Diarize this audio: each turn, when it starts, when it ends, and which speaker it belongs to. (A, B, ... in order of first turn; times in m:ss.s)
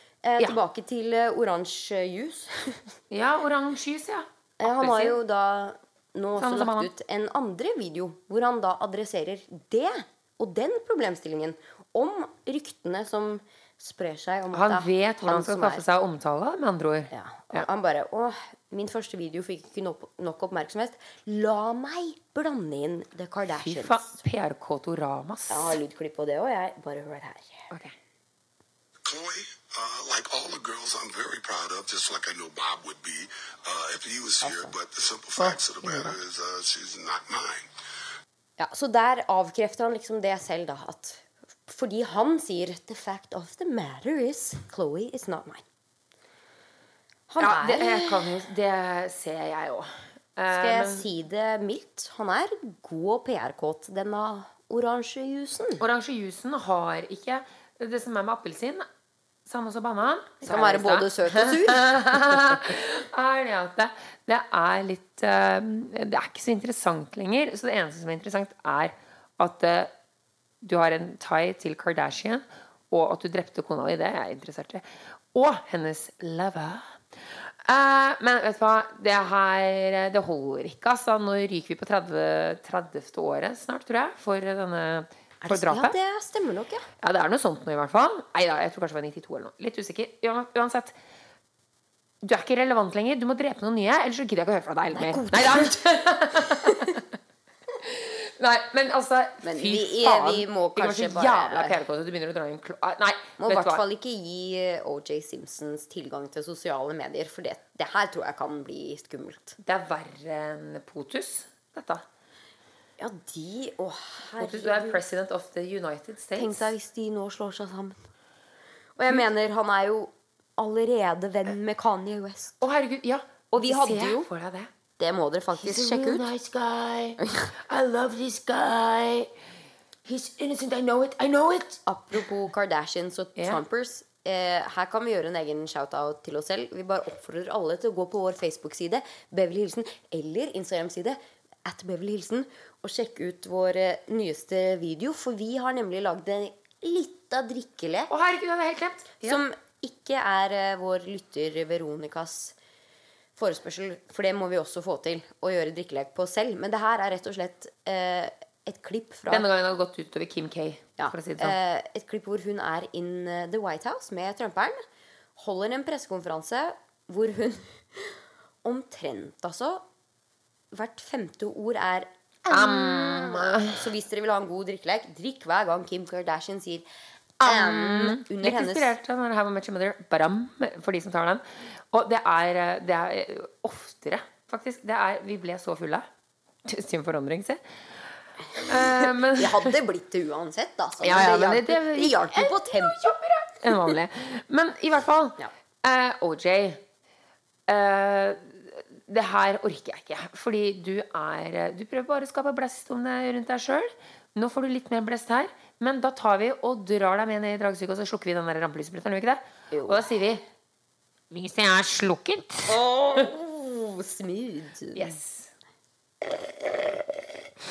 0:00.2-0:02.9 A
0:03.1-0:05.2 B
0:04.6-0:15.8 A
0:06.4-0:06.9 B
0:14.5-0:17.6 B
0:17.1-0:24.2 A
0:23.6-0:25.8 B
0:25.5-0:27.7 A
0:29.0-0:37.7 C
0:34.4-0:34.7 A
0:35.4-0:36.2 B
0:38.6-0:45.6 A
0:47.3-0:48.5 A
0:47.4-0:51.1 B
0:50.5-0:55.8 A
0:55.8-0:58.9 B
0:59.5-1:09.9 B
1:00.4-1:02.6 A
1:10.6-1:26.0 B
1:25.4-1:26.9 A
1:27.0-1:31.0 B
1:32.2-1:37.1 B
1:34.9-1:37.0 A
1:37.8-1:43.8 B
1:39.4-1:41.8 A
1:43.4-1:49.6 A
1:49.6-1:52.0 B
1:53.0-1:55.0 A
1:54.4-1:56.7 B
1:56.4-1:58.0 A
1:59.0-2:02.6 A
2:02.6-2:04.7 B
2:03.5-2:04.3 A
2:05.0-2:06.3 A
2:05.6-2:09.3 B
2:10.0-2:11.8 B
2:11.9-2:28.1 A
2:28.1-2:29.4 B
2:29.2-2:32.6 A
2:33.4-2:39.5 A
2:39.3-2:41.6 B
2:41.0-2:44.8 A
2:45.4-2:49.8 A
2:50.7-2:56.9 A
2:52.5-2:53.9 B
2:57.4-3:06.1 B
2:57.4-2:58.9 A
3:06.6-3:09.7 B
3:08.5-3:13.0 A
3:11.0-3:16.8 B
3:17.7-3:30.4 B
3:29.7-3:30.1 A
3:31.3-3:33.2 B
3:32.7-3:35.2 A
3:35.0-3:35.5 B
3:36.2-3:37.1 A